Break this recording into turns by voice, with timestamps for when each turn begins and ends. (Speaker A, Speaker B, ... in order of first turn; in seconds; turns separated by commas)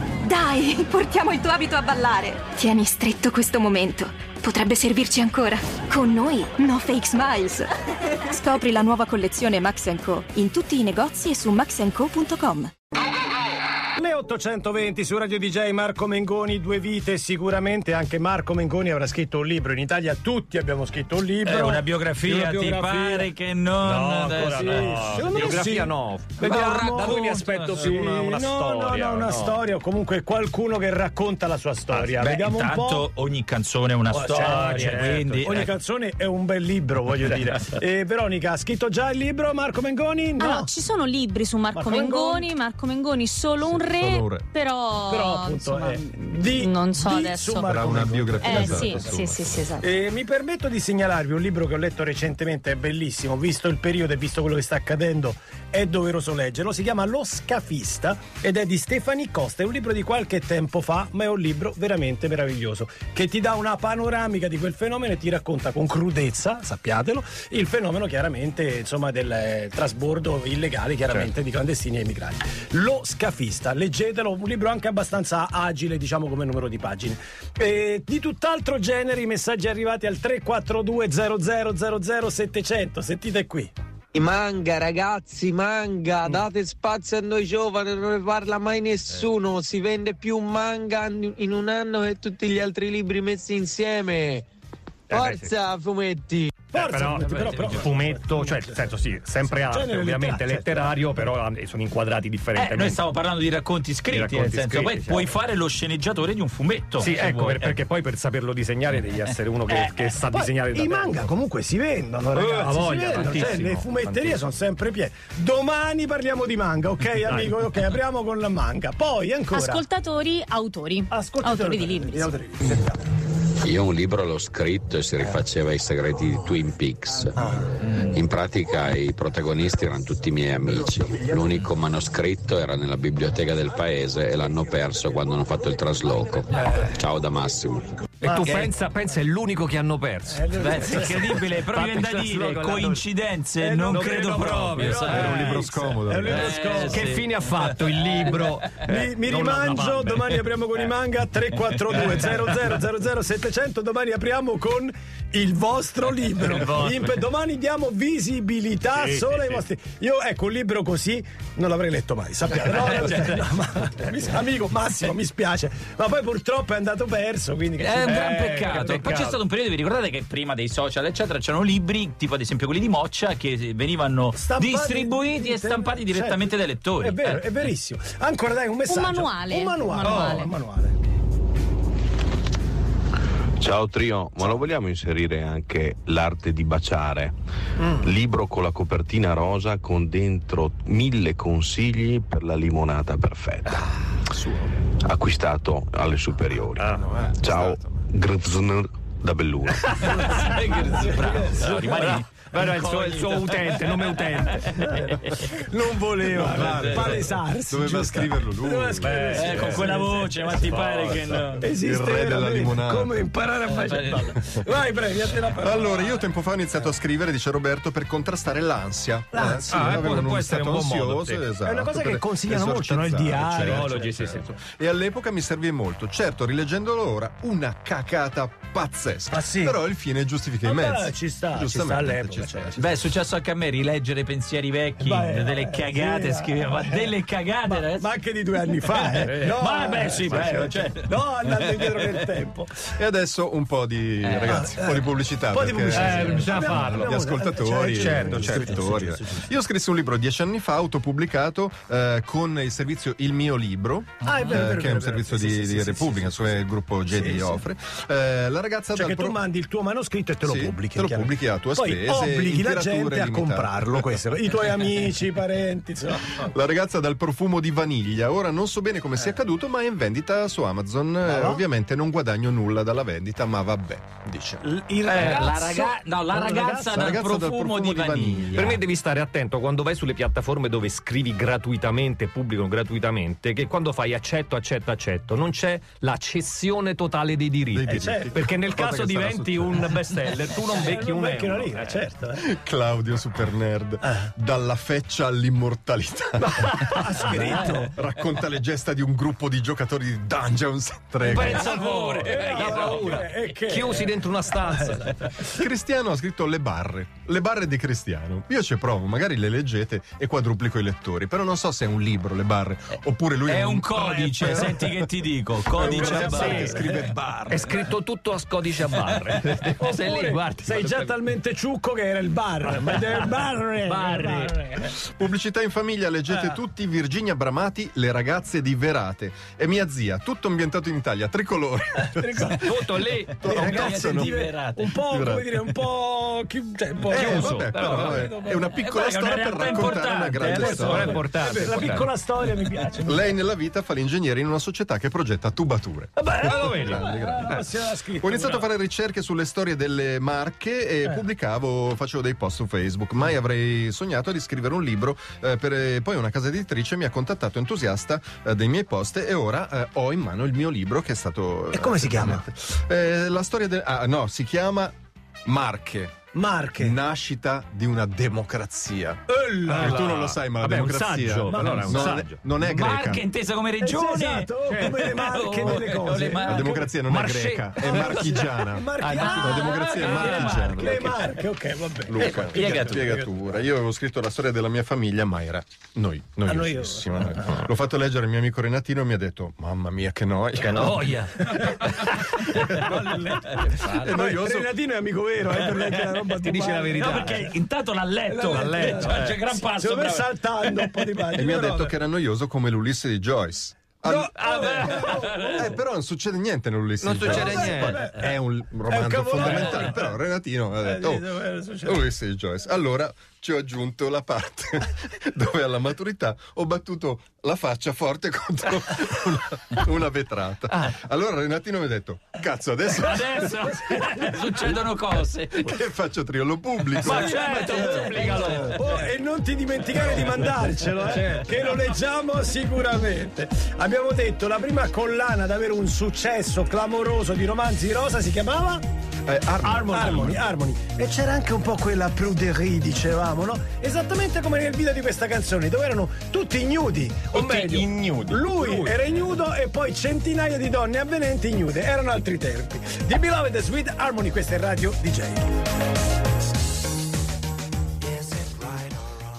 Speaker A: 0.2-7.7, Speaker A: 8.2-12.7, Speaker B: 14.0-21.9, Speaker C: 21.4-25.7, Speaker D: 22.3-22.9, Speaker B: 22.4-23.3, Speaker D: 23.8-29.6, Speaker B: 24.5-33.1, Speaker C: 26.4-27.9, Speaker C: 31.9-35.7, Speaker B: 34.1-40.7, Speaker D: 34.3-35.3, Speaker E: 40.4-47.7, Speaker B: 41.7-42.5, Speaker F: 43.6-44.5, Speaker B: 45.1-49.3, Speaker F: 47.7-49.7, Speaker E: 48.4-49.9, Speaker B: 49.8-83.7, Speaker G: 84.2-94.4, Speaker D: 95.1-95.5, Speaker G: 95.5-96.5, Speaker B: 96.7-101.0, Speaker D: 96.7-103.0, Speaker C: 102.5-107.8, Speaker D: 104.1-105.3, Speaker D: 107.0-111.3, Speaker B: 109.7-119.9, Speaker D: 112.3-114.5, Speaker D: 117.3-117.6, Speaker E: 119.5-122.3, Speaker B: 121.1-123.0, Speaker H: 123.6-137.9, Speaker D: 136.6-137.0, Speaker D: 138.2-143.1, Speaker B: 138.2-138.7, Speaker B: 140.3-141.3, Speaker C: 140.5-145.7, Speaker B: 143.6-147.2, Speaker D: 143.9-145.5, Speaker F: 145.0-146.6, Speaker C: 146.2-148.4, Speaker D: 146.8-150.4, Speaker B: 148.8-168.5, Speaker D: 156.5-157.1, Speaker D: 158.9-159.6, Speaker C: 167.8-177.7, Speaker D: 168.1-169.4, Speaker B: 174.3-176.5, Speaker B: 177.0-181.0, Speaker E: 178.9-180.5, Speaker C: 180.1-180.3, Speaker I: 183.6-187.3, Speaker I: 187.9-193.9, Speaker I: 195.0-200.3, Speaker F: 196.9-198.1, Speaker C: 200.2-205.1, Speaker B: 201.0-201.8, Speaker D: 201.6-205.2, Speaker B: 205.4-210.8, Speaker F: 206.2-209.8, Speaker C: 206.3-207.3, Speaker C: 209.2-211.6, Speaker B: 211.5-216.0, Speaker F: 211.8-213.1, Speaker C: 213.7-214.4, Speaker F: 215.6-232.9, Speaker B: 219.3-220.1, Speaker D: 219.7-221.4, Speaker B: 221.6-224.1, Speaker D: 223.6-224.6, Speaker B: 229.3-229.8, Speaker B: 230.6-232.9, Speaker C: 232.8-238.1, Speaker B: 235.0-237.0, Speaker B: 237.6-242.7, Speaker C: 238.8-242.1, Speaker D: 239.2-239.6, Speaker F: 243.0-259.4, Speaker C: 244.2-244.7, Speaker B: 244.5-249.4, Speaker D: 245.9-247.1, Speaker C: 246.2-246.7, Speaker D: 247.8-248.6, Speaker B: 254.2-257.7, Speaker B: 258.9-266.5, Speaker F: 260.4-264.2, Speaker F: 266.3-274.3, Speaker B: 271.2-271.6, Speaker B: 274.6-277.2, Speaker C: 275.1-278.7, Speaker F: 276.9-278.8, Speaker D: 278.6-292.0, Speaker F: 287.7-289.9, Speaker B: 287.8-288.5, Speaker B: 290.7-292.4, Speaker F: 292.4-301.7, Speaker B: 294.0-294.3, Speaker B: 296.4-297.9, Speaker B: 301.2-305.2, Speaker D: 301.3-305.5, Speaker C: 301.6-303.2, Speaker F: 305.5-314.8, Speaker C: 313.5-316.7, Speaker F: 315.7-317.8, Speaker B: 315.9-317.0, Speaker D: 316.2-316.8, Speaker D: 317.5-321.1, Speaker B: 319.8-324.8, Speaker C: 319.9-320.3, Speaker D: 323.8-324.6, Speaker F: 324.9-332.6, Speaker B: 332.1-332.8, Speaker D: 332.6-333.9, Speaker B: 333.4-338.8, Speaker C: 333.4-334.9, Speaker F: 333.5-334.4, Speaker F: 335.0-335.5, Speaker F: 337.1-341.2, Speaker D: 337.1-337.9, Speaker C: 337.2-341.2, Speaker B: 339.7-343.3, Speaker D: 340.8-342.1, Speaker C: 342.4-343.0, Speaker F: 343.0-364.9, Speaker B: 346.2-348.7, Speaker D: 346.4-347.6, Speaker B: 361.7-362.5, Speaker F: 365.5-366.1, Speaker B: 366.3-367.0, Speaker F: 366.8-373.2, Speaker B: 369.3-370.1, Speaker D: 369.7-372.4, Speaker B: 371.5-372.2, Speaker C: 372.6-374.5, Speaker B: 373.8-376.9, Speaker D: 374.7-375.1, Speaker C: 375.1-376.7, Speaker F: 376.4-381.4, Speaker D: 377.1-378.5, Speaker B: 377.8-383.5, Speaker D: 379.0-379.6, Speaker C: 379.1-381.1, Speaker D: 380.1-380.7, Speaker F: 382.1-391.3, Speaker C: 382.5-383.1, Speaker B: 386.5-387.6, Speaker D: 390.6-394.1, Speaker F: 392.4-394.7, Speaker B: 394.1-397.4, Speaker D: 396.3-397.4, Speaker C: 396.9-400.8, Speaker B: 398.2-402.0, Speaker D: 398.5-399.4, Speaker F: 401.4-404.3, Speaker B: 404.0-405.8, Speaker C: 404.4-405.7, Speaker F: 405.6-423.7, Speaker D: 407.0-408.1, Speaker B: 407.1-408.3, Speaker B: 408.9-410.1, Speaker C: 409.4-409.8, Speaker B: 410.8-412.1, Speaker C: 423.0-425.8, Speaker D: 424.0-424.3, Speaker F: 425.5-427.8, Speaker C: 427.0-428.8, Speaker B: 427.0-438.8, Speaker D: 427.1-429.0, Speaker D: 431.1-431.5, Speaker F: 439.3-440.5, Speaker B: 439.6-455.7, Speaker D: 447.3-448.9